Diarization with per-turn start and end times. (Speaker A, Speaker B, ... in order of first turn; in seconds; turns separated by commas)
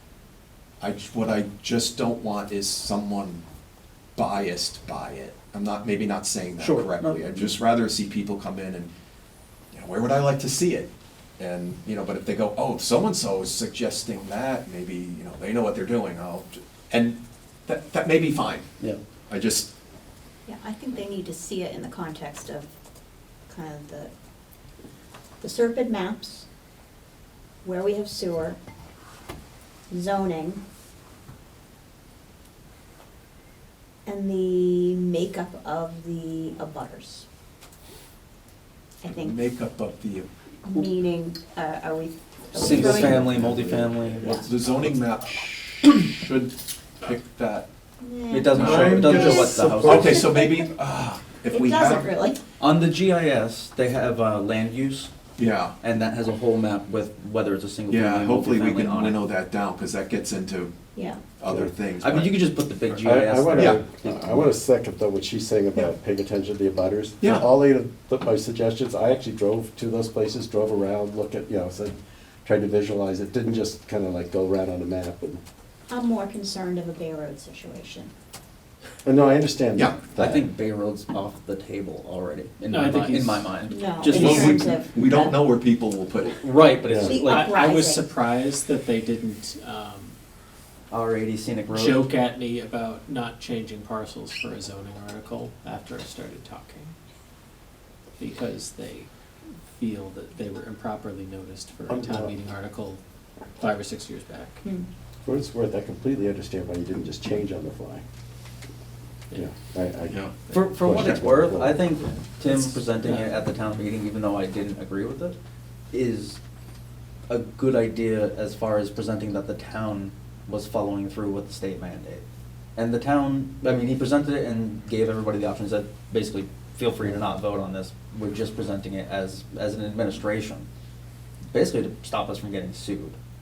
Speaker A: 0.8-3.4, Speaker A: 4.2-8.9, Speaker B: 6.6-7.4, Speaker A: 9.7-18.7, Speaker A: 19.3-19.7, Speaker C: 20.4-22.7, Speaker C: 23.5-24.1, Speaker C: 25.4-26.4, Speaker C: 27.6-28.6, Speaker C: 29.9-30.6, Speaker C: 34.0-37.2, Speaker C: 39.0-39.5, Speaker A: 39.0-40.3, Speaker C: 40.6-43.4, Speaker B: 42.5-45.0, Speaker D: 42.6-44.0, Speaker A: 42.7-43.3, Speaker A: 43.8-47.7, Speaker C: 48.0-50.7, Speaker B: 48.3-50.2, Speaker A: 48.5-52.1, Speaker D: 48.8-49.9, Speaker C: 51.5-52.4, Speaker B: 52.6-55.1, Speaker A: 55.4-55.7, Speaker B: 55.8-59.2, Speaker A: 57.9-60.7, Speaker C: 60.9-61.2, Speaker A: 61.4-62.4, Speaker B: 62.0-64.4, Speaker D: 63.0-75.4, Speaker A: 63.5-63.8, Speaker A: 67.2-67.5, Speaker C: 75.9-78.1, Speaker D: 79.0-80.5, Speaker B: 80.2-84.8, Speaker E: 82.7-83.6, Speaker C: 83.7-85.4, Speaker A: 84.0-86.3, Speaker B: 86.3-87.5, Speaker D: 86.9-87.1, Speaker C: 87.0-88.1, Speaker E: 87.3-90.1, Speaker B: 90.9-92.0, Speaker E: 91.7-96.9, Speaker E: 98.2-99.1, Speaker E: 99.7-103.0, Speaker D: 101.9-102.3, Speaker E: 103.6-104.6, Speaker D: 105.2-108.0, Speaker D: 109.3-111.9, Speaker E: 110.3-110.6, Speaker B: 110.5-115.3, Speaker E: 112.4-113.4, Speaker B: 115.9-116.4, Speaker B: 117.3-122.2, Speaker B: 122.8-130.6, Speaker B: 131.5-133.2